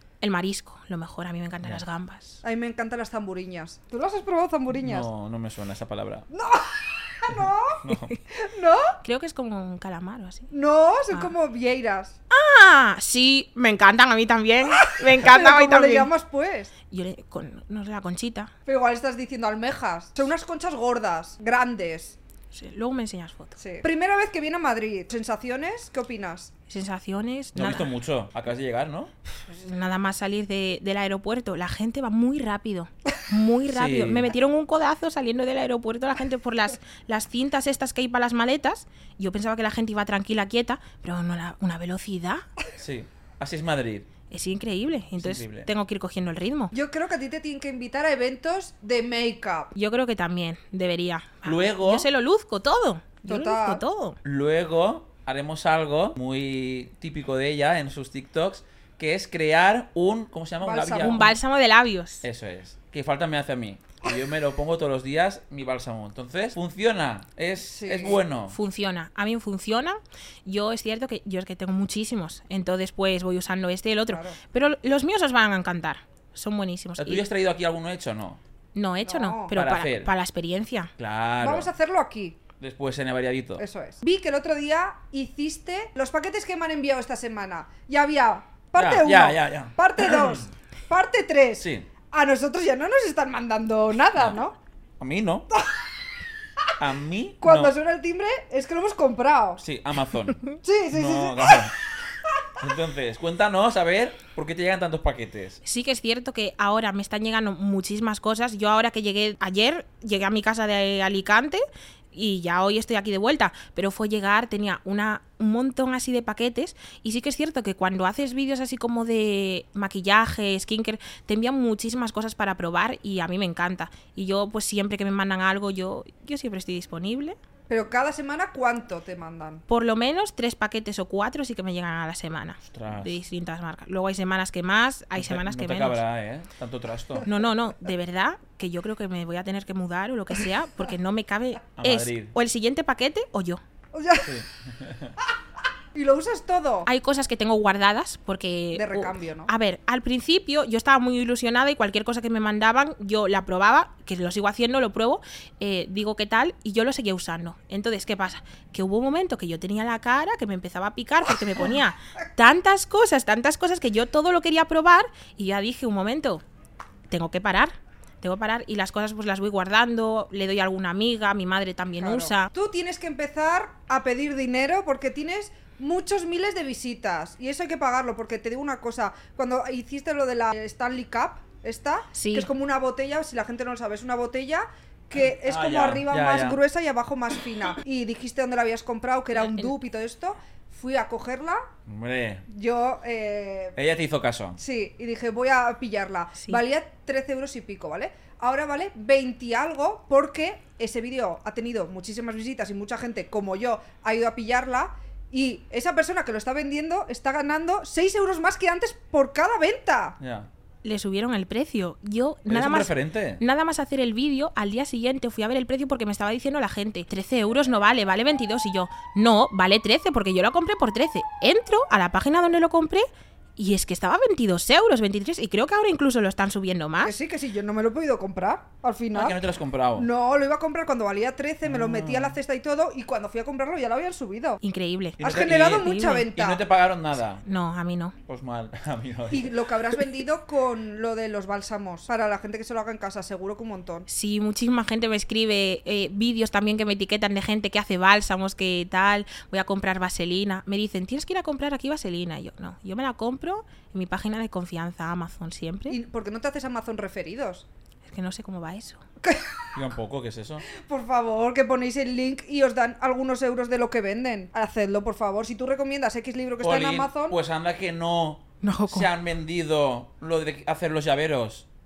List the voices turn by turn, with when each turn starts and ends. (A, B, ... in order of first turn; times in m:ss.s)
0:00.2-0:02.4 A
0:02.4-0:05.1 B
0:04.7-0:06.3 C
0:06.3-0:09.0 B
0:07.3-0:08.1 C
0:09.0-0:10.5 A
0:10.5-0:12.2 B
0:12.3-0:16.1 A
0:14.7-0:16.7 B
0:16.9-0:18.5 A
0:18.6-0:22.2 B
0:22.5-0:23.6 A
0:23.6-0:26.5 B
0:26.7-0:27.9 A
0:27.5-0:29.1 C
0:29.5-0:42.4 A
0:33.7-0:34.3 C
0:42.8-0:44.1 C
0:44.3-0:46.7 A
0:45.1-0:45.7 C
0:46.7-0:49.7 B
0:49.7-0:54.2 A
0:51.4-0:52.1 C
0:53.2-0:53.8 B
0:54.2-1:01.4 C
1:00.6-1:01.3 B
1:01.0-1:02.2 A
1:02.2-1:08.6 C
1:07.7-1:08.2 B
1:08.5-1:17.2 A
1:14.1-1:14.4 B
1:17.0-1:18.4 C
1:18.7-1:20.9 A
1:19.0-1:19.5 B
1:19.5-1:20.1 C
1:21.0-1:21.7 C
1:21.4-1:22.4 B
1:22.6-1:23.6 C
1:23.6-1:34.5 B
1:28.8-1:30.4 C
1:31.6-1:31.9 C
1:35.0-1:35.5 C
1:36.8-1:37.7 C
1:37.4-1:39.6 B
1:39.6-1:41.7 C
1:40.6-1:41.7 B
1:42.6-1:45.6 C
1:45.6-2:07.4 A
2:07.7-2:09.6 B
2:09.7-2:16.0 A
2:12.6-2:13.2 C
2:15.2-2:17.3 C
2:17.2-2:23.6 A
2:21.8-2:22.3 C
2:23.9-2:24.3 B
2:24.2-2:25.1 C
2:25.9-2:26.9 B
2:26.8-2:46.4 A
2:28.7-2:29.5 B
2:47.1-2:52.5 A
2:52.0-3:11.6 B
3:02.1-3:02.5 A
3:05.1-3:06.6 C
3:09.3-3:09.7 A
3:11.9-3:12.4 C
3:12.5-3:13.8 B
3:13.8-3:14.6 C
3:14.6-3:30.2 B
3:30.2-3:30.5 C
3:30.8-3:43.0 A
3:32.5-3:33.4 C
3:43.6-3:47.1 A
3:47.0-3:49.4 B
3:49.1-3:50.1 C
3:50.0-3:54.6 B
3:51.6-3:52.4 C
3:54.6-3:56.3 A
3:55.2-3:57.4 C
3:55.2-3:56.6 B
3:57.4-3:58.2 A
3:58.2-3:59.5 C
3:59.3-4:04.0 B
4:04.1-4:16.0 A
4:15.9-4:17.6 B
4:18.1-4:19.0 A
4:19.2-4:19.7 B
4:19.7-4:20.6 C
4:20.7-4:27.4 B
4:26.6-4:31.6 C
4:28.6-4:29.1 A